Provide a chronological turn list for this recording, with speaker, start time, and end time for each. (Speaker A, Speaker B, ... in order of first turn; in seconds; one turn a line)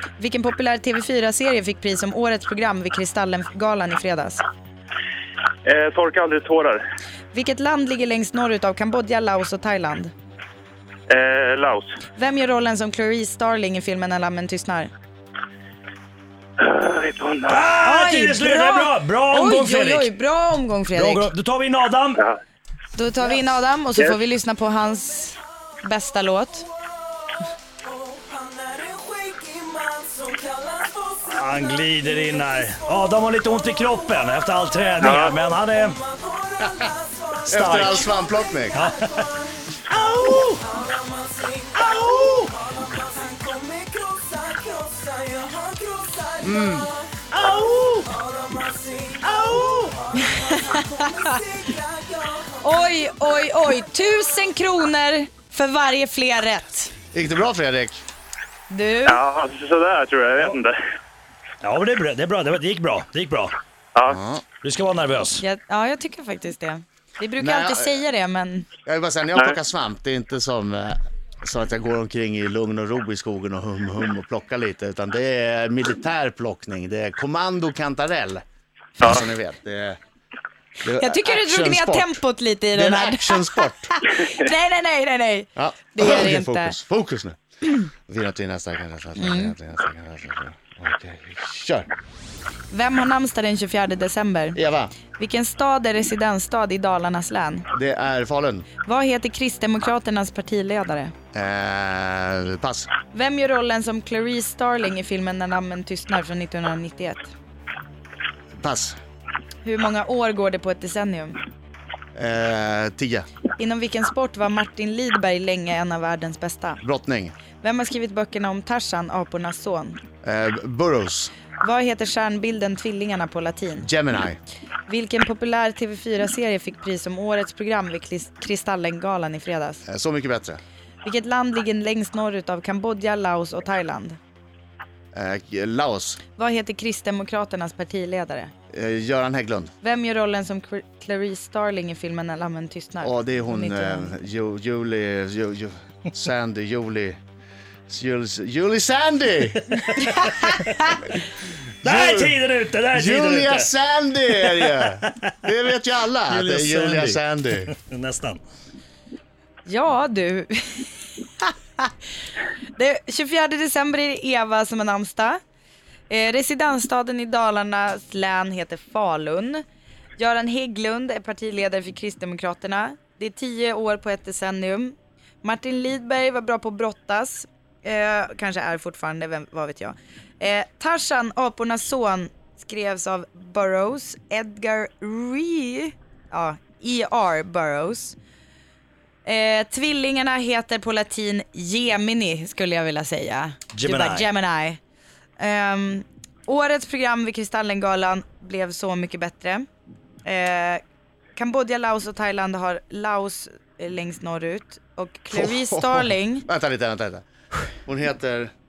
Speaker A: 0.2-4.4
Speaker B: 5.7-6.8
Speaker A: 7.3-10.1
Speaker B: 11.1-11.9
Speaker A: 12.2-14.9
Speaker B: 16.6-17.8
Speaker C: 17.5-20.1
Speaker A: 17.8-21.3
Speaker C: 20.9-22.2
Speaker A: 22.9-26.7
Speaker D: 27.9-31.2
Speaker C: 31.2-36.0
Speaker B: 35.0-35.3
Speaker D: 36.1-37.3
Speaker C: 37.5-38.2
Speaker E: 37.5-38.8
Speaker C: 38.7-39.3
Speaker D: 39.2-39.5
Speaker C: 39.8-40.7
Speaker D: 40.7-41.8
Speaker C: 41.9-42.5
Speaker D: 42.3-46.3
Speaker E: 46.4-46.9
Speaker C: 47.3-48.1
Speaker D: 48.1-52.4
Speaker C: 49.3-49.9
Speaker A: 50.1-51.4
Speaker A: 52.5-56.9
Speaker E: 57.1-58.0
Speaker A: 58.7-59.2
Speaker B: 59.1-60.8
Speaker C: 61.6-63.5
Speaker E: 64.1-64.4
Speaker C: 64.6-65.4
Speaker A: 65.4-68.7
Speaker E: 67.4-68.0
Speaker E: 68.8-78.4
Speaker E: 79.0-80.0
Speaker E: 80.8-82.2
Speaker A: 80.9-86.8
Speaker E: 82.7-84.0
Speaker E: 85.6-87.4
Speaker E: 88.1-91.9
Speaker A: 89.2-89.5
Speaker A: 92.7-94.6
Speaker E: 94.5-94.9
Speaker A: 95.2-97.7
Speaker E: 97.7-98.7
Speaker A: 98.8-101.1
Speaker E: 101.3-102.9
Speaker A: 103.1-107.3
Speaker E: 108.6-109.0
Speaker A: 109.6-111.4
Speaker E: 112.2-113.3
Speaker A: 113.6-116.8
Speaker E: 116.8-117.3
Speaker A: 117.6-120.0
Speaker E: 120.2-121.3
Speaker A: 121.6-123.9
Speaker E: 123.8-124.4
Speaker A: 124.9-129.8
Speaker E: 129.9-130.6
Speaker A: 131.0-134.2
Speaker E: 135.1-136.2
Speaker A: 136.4-138.5
Speaker E: 138.7-139.7
Speaker A: 139.8-144.1
Speaker E: 143.0-147.2
Speaker E: 147.9-149.7
Speaker C: 149.7-150.6
Speaker A: 150.2-151.0
Speaker C: 151.8-153.7
Speaker E: 151.8-152.3
Speaker E: 152.9-157.7
Speaker C: 154.4-155.3
Speaker C: 156.3-158.4
Speaker A: 159.7-161.9
Speaker A: 162.8-165.4
Speaker A: 166.1-169.6
Speaker A: 170.2-188.2
Speaker A: 189.2-194.8
Speaker C: 193.7-194.3
Speaker A: 195.4-199.7
Speaker A: 200.2-200.8
Speaker A: 201.4-206.5
Speaker E: 205.3-207.2
Speaker E: 207.8-208.5